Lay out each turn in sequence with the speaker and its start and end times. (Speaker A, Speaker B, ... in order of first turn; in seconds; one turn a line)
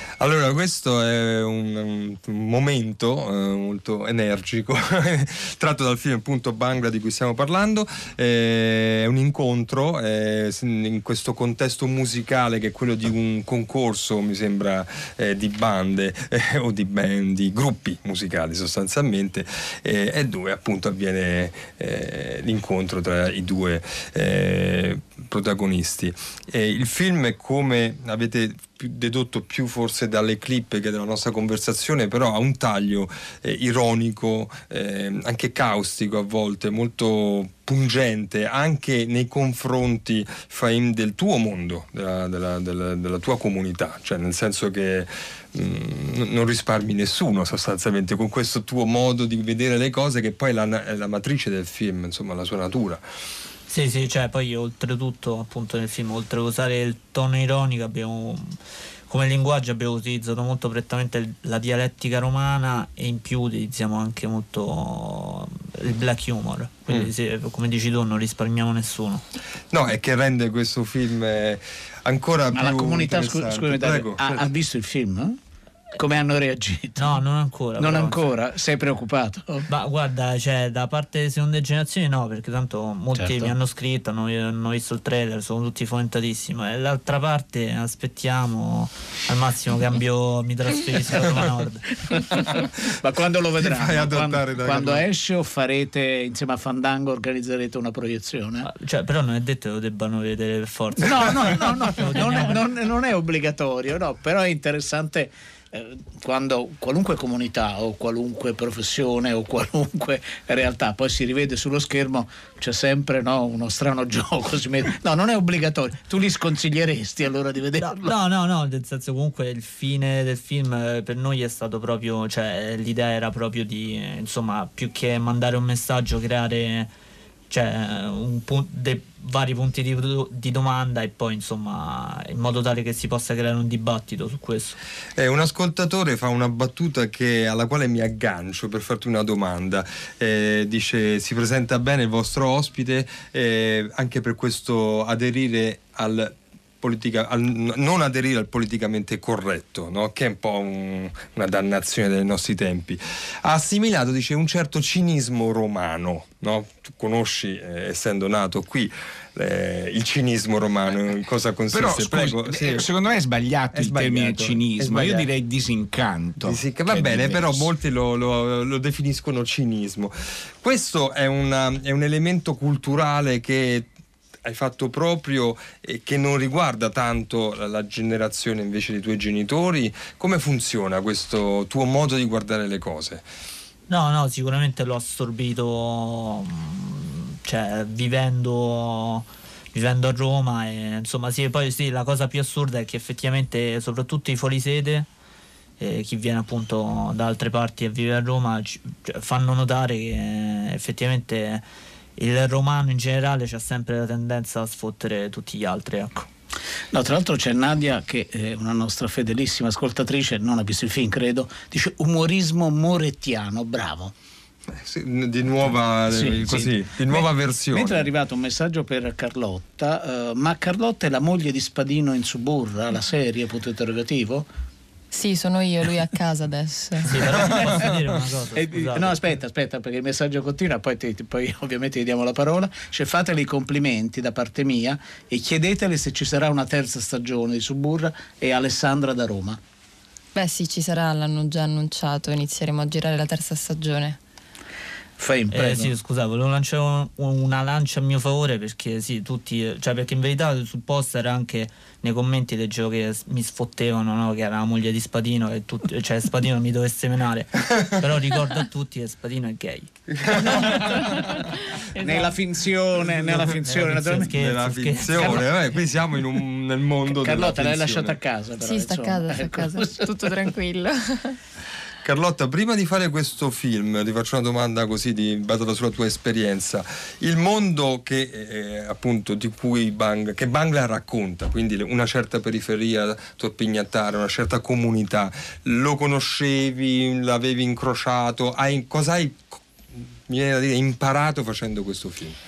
Speaker A: 0.2-53.0
Speaker B: 53.7-69.2
Speaker A: 69.7-74.5
Speaker C: 72.5-75.4
Speaker C: 75.9-77.2
Speaker B: 77.0-78.3
Speaker C: 77.8-79.7
Speaker B: 79.7-91.9
Speaker C: 83.1-83.5
Speaker C: 92.3-98.7
Speaker A: 93.6-95.0
Speaker B: 98.6-102.6
Speaker C: 101.0-118.2
Speaker B: 117.8-126.9
Speaker B: 127.5-134.8
Speaker A: 135.2-162.9
Speaker D: 161.7-167.7
Speaker A: 163.7-165.3
Speaker A: 166.4-173.9
Speaker A: 174.4-183.2
Speaker B: 183.9-195.1
Speaker B: 195.8-201.6
Speaker B: 202.2-206.3
Speaker C: 206.9-214.1
Speaker A: 214.7-218.1
Speaker C: 216.1-224.4
Speaker E: 225.1-227.4
Speaker B: 227.1-229.2
Speaker C: 227.4-227.9
Speaker C: 228.5-239.6
Speaker E: 240.3-244.2
Speaker C: 245.2-245.9
Speaker B: 245.5-259.9
Speaker A: 260.1-261.3
Speaker C: 262.0-264.3
Speaker E: 262.0-262.3
Speaker B: 263.6-265.5
Speaker A: 264.3-268.1
Speaker C: 265.1-265.5
Speaker C: 267.1-270.3
Speaker E: 268.6-271.4
Speaker A: 272.0-289.6
Speaker A: 290.3-292.4